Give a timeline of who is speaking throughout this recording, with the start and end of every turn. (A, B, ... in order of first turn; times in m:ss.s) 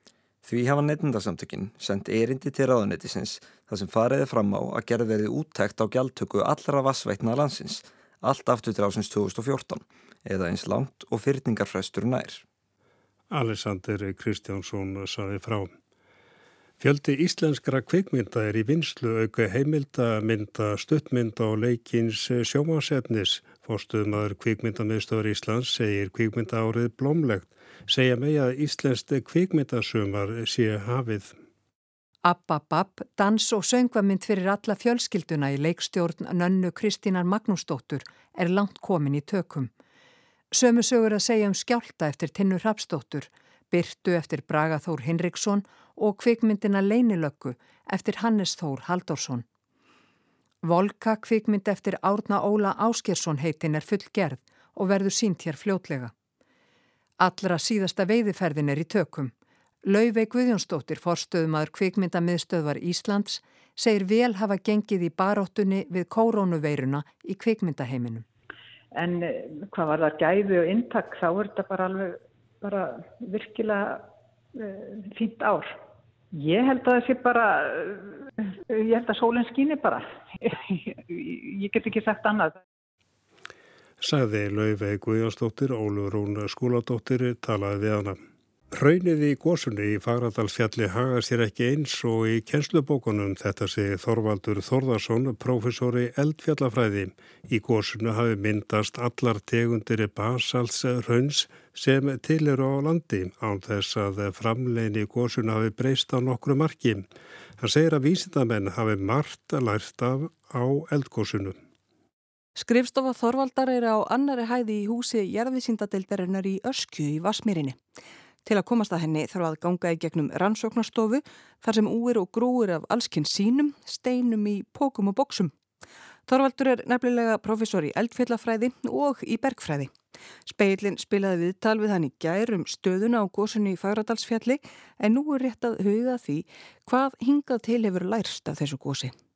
0:00.4-0:12.4 A
0:13.3-0:15.7 B
0:16.8-0:31.3 B
0:32.2-0:39.7 C
0:40.5-0:49.4 C
0:50.6-0:56.1 C
0:57.2-0:59.3 C
0:59.8-1:08.2 C
1:08.9-1:14.0 D
1:14.6-1:15.8 D
1:16.3-1:18.0 D
1:18.7-1:20.5 D
1:21.1-1:22.6 D
1:24.0-1:28.2 B
1:28.7-1:47.1 B
1:47.6-1:51.6 B
1:52.6-1:57.8 E
1:58.4-2:05.5 E
2:06.3-2:09.9 E
2:10.5-2:19.1 E